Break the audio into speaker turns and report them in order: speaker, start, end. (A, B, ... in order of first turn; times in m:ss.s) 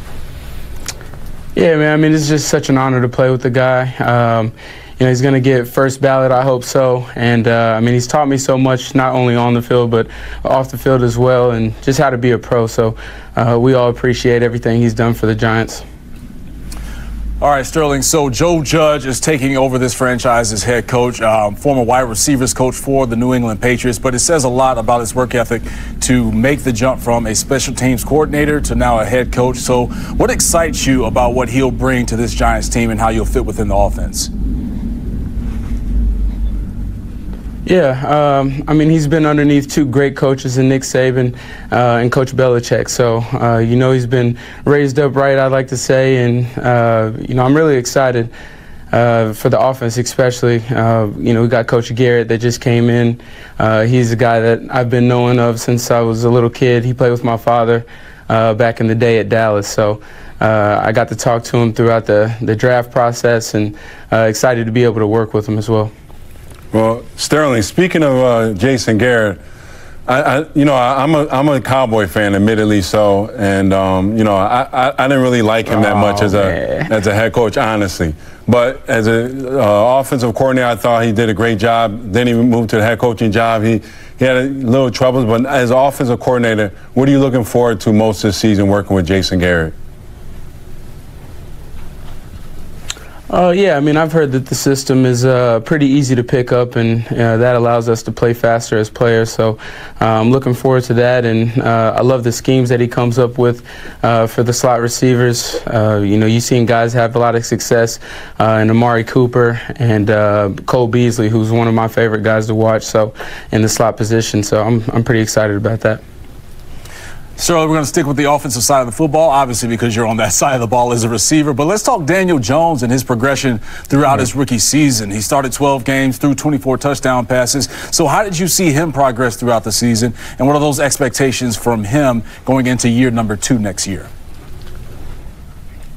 0:01.5-0:15.8 A
0:17.4-0:34.3 B
0:37.6-0:48.3 A
0:48.9-1:05.9 A
1:06.7-1:09.4 C
1:10.1-1:29.7 C
1:15.7-1:16.9 A
1:33.3-1:56.0 A
1:57.4-2:14.1 B